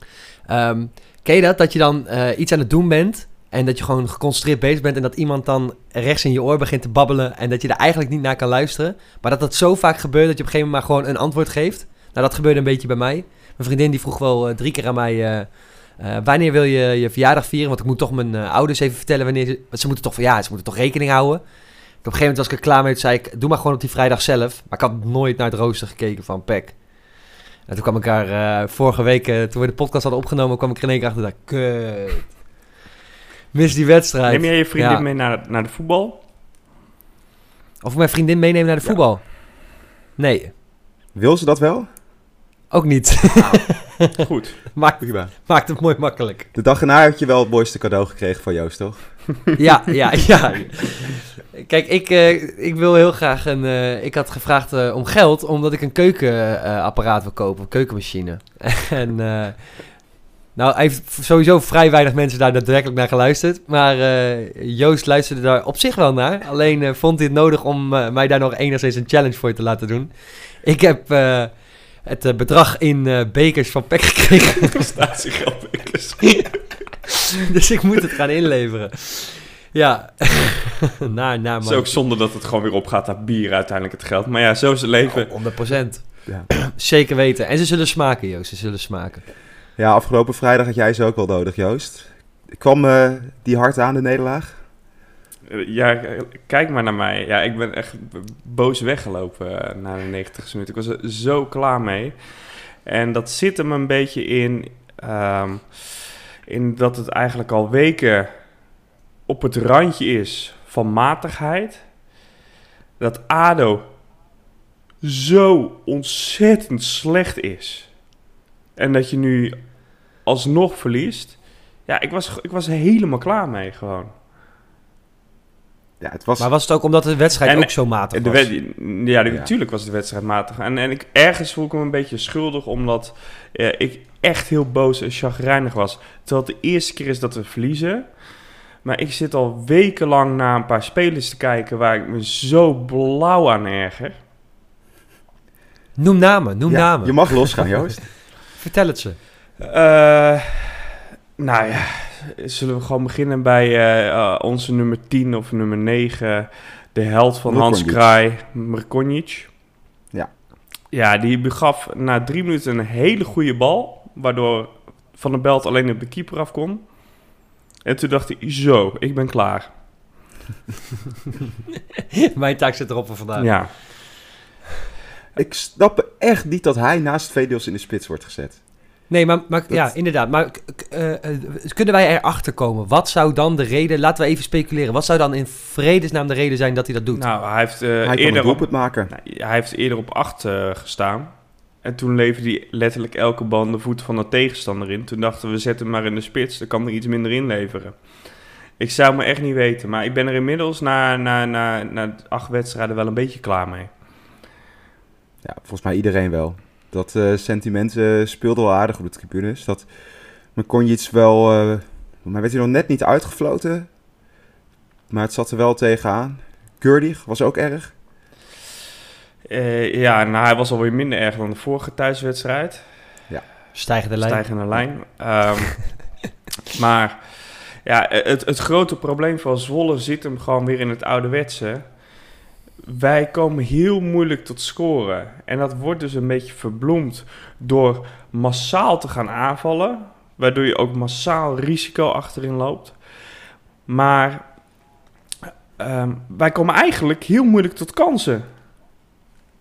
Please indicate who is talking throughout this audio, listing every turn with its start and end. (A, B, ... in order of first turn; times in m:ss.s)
0:00.5-0:21.4 A
0:22.0-0:26.8 A
0:27.7-0:32.4 A
0:33.5-0:35.0 A
0:34.3-0:36.2 B
0:37.8-0:40.5 A
0:41.1-0:41.9 C
0:42.7-0:44.2 A
0:44.2-0:44.7 B
0:44.7-0:46.5 A
0:45.0-0:45.3 C
0:46.5-0:49.2 C
0:49.6-1:10.1 A
1:10.6-1:11.5 A
1:12.0-1:14.8 A
1:14.6-1:16.6 B
1:17.5-1:22.0 A
1:21.6-1:25.3 B
1:25.1-1:29.2 A
1:29.8-1:34.6 C
1:35.5-1:48.4 B
1:49.3-1:51.8 B
1:53.0-1:53.9 B
1:55.0-1:57.9 B
1:58.8-1:59.6 B
2:00.2-2:04.1 B
2:06.0-2:06.5 C
2:06.4-2:08.5 A
2:07.4-2:24.2 B
2:26.0-2:27.7 A
2:26.7-2:28.1 C
2:28.6-2:29.2 A
2:29.6-2:39.5 B
2:37.5-2:38.1 C
2:40.9-2:49.7 B
2:52.2-2:53.6 A
2:53.4-2:54.0 B
2:55.4-2:58.6 C
2:59.1-3:07.2 A
3:07.2-3:23.9 B
3:08.0-3:09.1 C
3:25.4-3:29.9 C
3:30.6-3:33.9 C
3:35.1-3:37.9 C
3:39.5-3:42.9 B
3:43.8-3:44.4 A
3:44.2-3:46.2 B
3:46.7-3:52.0 B
3:52.9-4:03.0 B
4:03.9-4:04.6 B
4:05.8-4:08.5 B